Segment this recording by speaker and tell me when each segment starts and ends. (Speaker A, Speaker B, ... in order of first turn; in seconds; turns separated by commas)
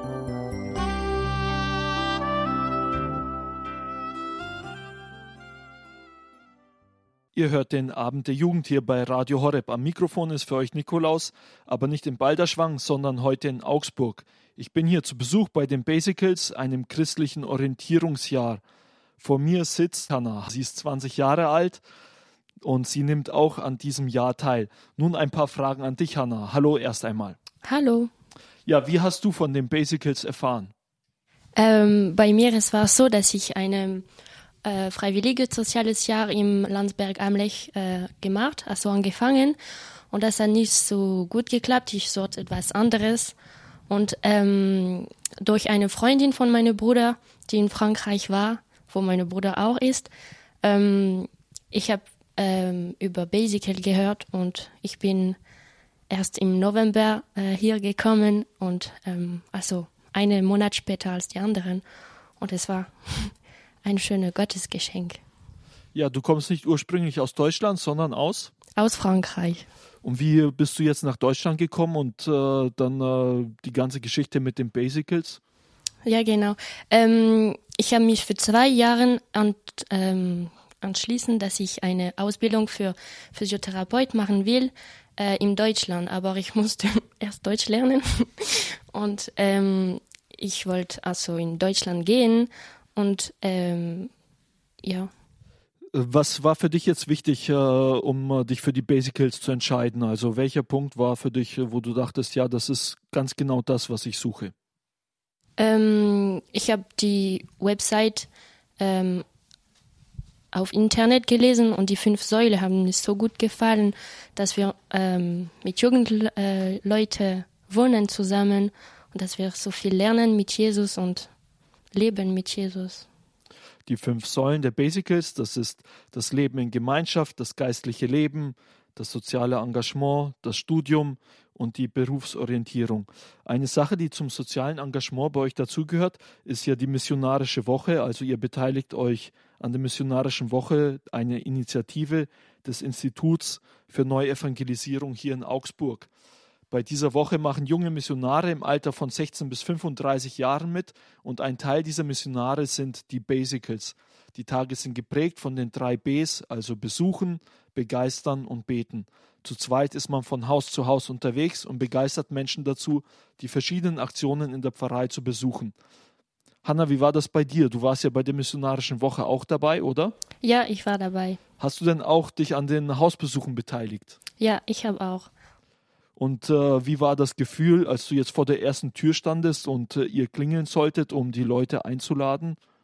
Speaker A: 7.3-18.6, Speaker A: 19.2-21.8, Speaker A: 22.6-27.4, Speaker B: 27.6-28.1, Speaker A: 28.7-30.7, Speaker B: 31.6-34.1, Speaker B: 34.6-39.6, Speaker B: 40.1-43.4, Speaker B: 43.9-50.1, Speaker B: 50.6-55.4, Speaker B: 56.1-61.8, Speaker B: 62.4-65.2, Speaker A: 65.9-68.5, Speaker B: 68.8-69.6, Speaker A: 70.0-75.4, Speaker B: 76.0-94.1, Speaker B: 94.8-95.1, Speaker A: 95.9-104.5, Speaker B: 105.6-109.2, Speaker B: 110.5-121.3, Speaker B: 121.9-123.1, Speaker A: 123.9-146.1, Speaker A: 146.7-165.7, Speaker A: 166.6-170.2, Speaker B: 170.4-171.4, Speaker A: 171.6-174.2, Speaker B: 174.4-175.3, Speaker A: 176.2-182.6